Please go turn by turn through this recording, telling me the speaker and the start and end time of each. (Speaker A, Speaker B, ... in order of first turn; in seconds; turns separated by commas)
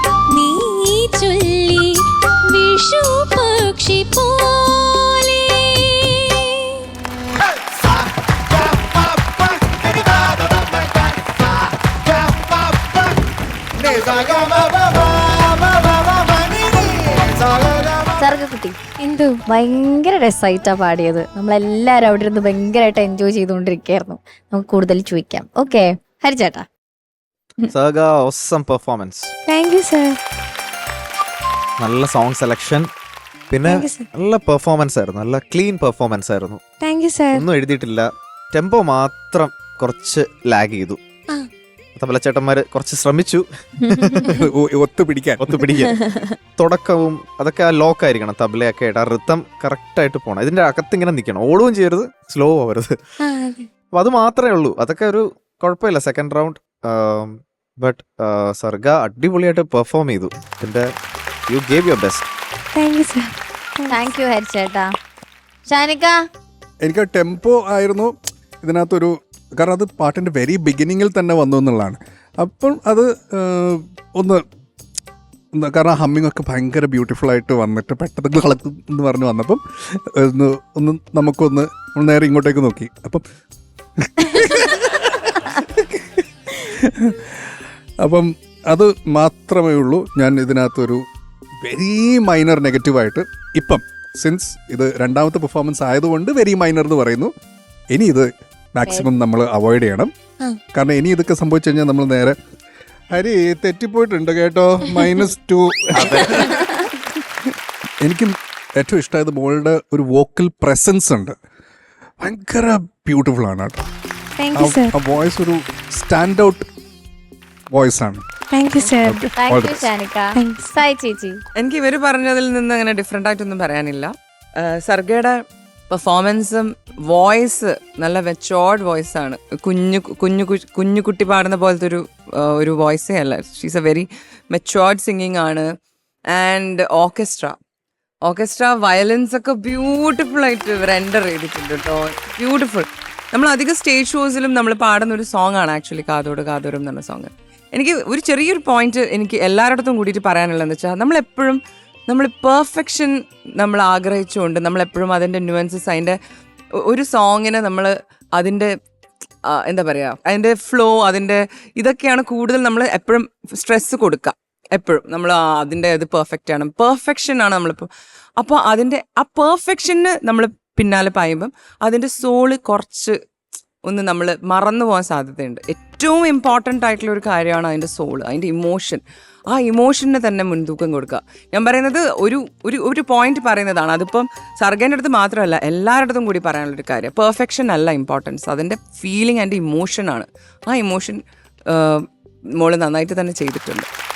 Speaker A: 0.3-6.8, Speaker B: 14.0-14.4, Speaker B: 18.0-18.8, Speaker A: 19.0-19.4, Speaker B: 19.5-26.6, Speaker C: 27.7-29.3, Speaker A: 29.5-30.1, Speaker C: 31.8-32.8, Speaker C: 33.5-36.6, Speaker A: 33.7-34.0, Speaker A: 36.9-37.4, Speaker C: 37.3-41.0, Speaker C: 42.0-44.4, Speaker D: 44.2-45.4, Speaker C: 45.4-46.0, Speaker C: 46.6-52.9, Speaker A: 53.2-53.6, Speaker C: 53.9-60.9, Speaker C: 61.5-62.3, Speaker A: 62.7-63.9, Speaker B: 63.9-64.9, Speaker B: 65.7-66.2, Speaker D: 66.8-68.1, Speaker D: 68.6-74.4, Speaker D: 75.5-83.2, Speaker D: 84.0-87.3, Speaker D: 88.0-91.0, Speaker D: 91.6-97.3, Speaker D: 97.9-100.1, Speaker B: 98.8-99.1, Speaker D: 100.7-102.3, Speaker D: 103.1-106.6, Speaker C: 105.9-106.3, Speaker D: 108.0-111.3, Speaker D: 112.2-113.8, Speaker A: 114.4-114.9, Speaker D: 114.5-116.7, Speaker D: 117.7-118.2, Speaker A: 118.5-119.2, Speaker D: 118.8-119.9, Speaker B: 119.3-121.4, Speaker A: 120.4-120.7, Speaker E: 121.6-125.4, Speaker E: 125.9-135.7, Speaker E: 136.3-137.6, Speaker E: 138.2-156.2, Speaker E: 156.8-158.7, Speaker E: 159.5-173.2, Speaker E: 173.8-192.0, Speaker E: 192.6-193.9